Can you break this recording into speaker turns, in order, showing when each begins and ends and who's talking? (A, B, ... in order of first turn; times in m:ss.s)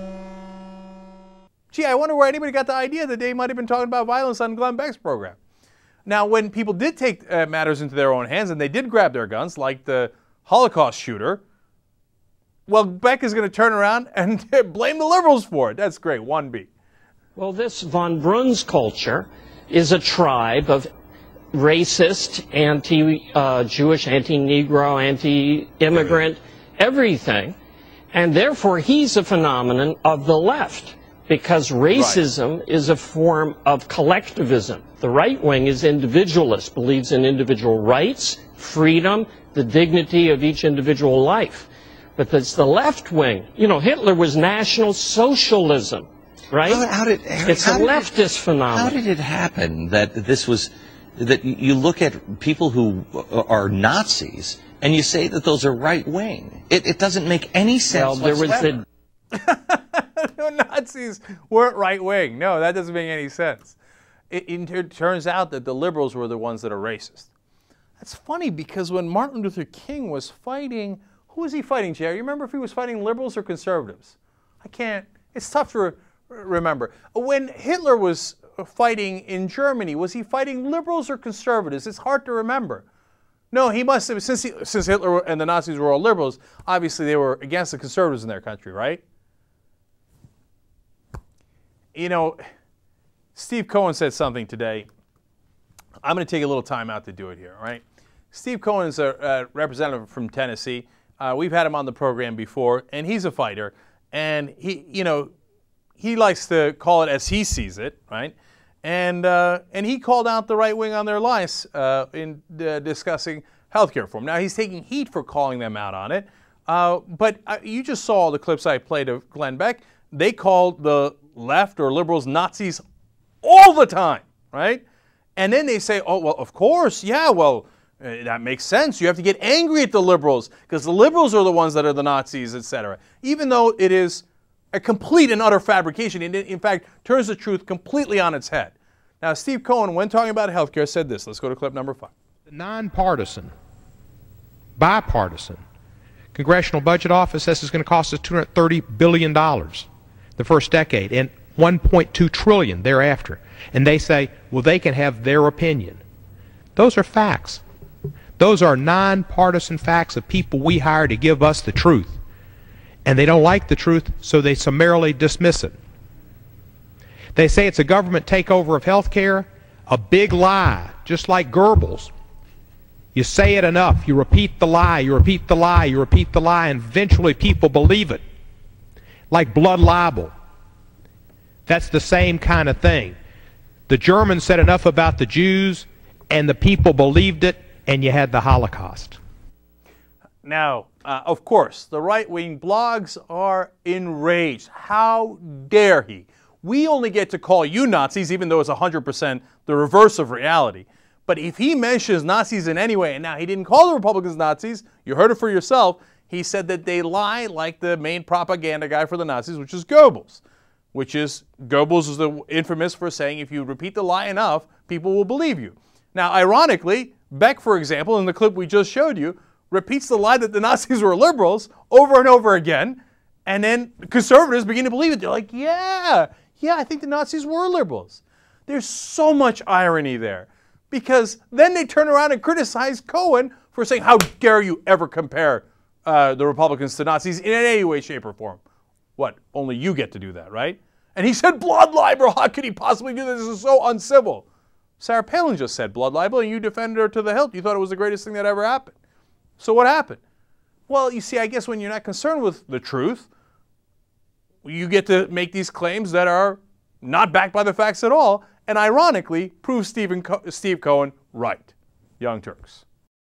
0:01.7-0:05.4 A
0:06.1-0:11.4 A
0:12.7-0:16.7 A
0:17.4-0:20.9 B
0:21.5-0:27.6 B
0:28.1-0:46.8 B
0:31.9-0:32.2 A
0:46.6-0:48.2 C
0:47.4-0:49.0 B
0:48.7-0:58.7 C
0:57.9-0:58.8 B
0:59.3-1:03.8 A
1:04.3-1:07.3 A
1:08.0-1:22.8 A
1:23.5-1:29.0 A
1:31.9-1:32.4 A
1:33.3-1:34.9 A
1:36.0-1:45.3 A
1:46.0-2:02.8 A
2:03.4-2:04.8 A
2:05.4-2:22.1 A
2:22.5-2:23.5 D
2:24.8-2:25.6 D
2:26.3-2:36.0 D
2:36.8-2:37.6 D
2:38.4-2:42.2 D
2:43.1-2:45.8 D
2:47.4-2:52.1 D
2:53.1-2:58.2 D
2:59.3-3:00.3 D
3:01.7-3:03.2 D
3:03.9-3:09.2 D
3:10.4-3:30.4 A
3:30.9-3:58.6 A
3:59.2-4:04.4 A
4:05.0-4:09.0 A
4:09.6-4:10.2 A
4:10.9-4:13.3 A
4:14.6-4:22.8 A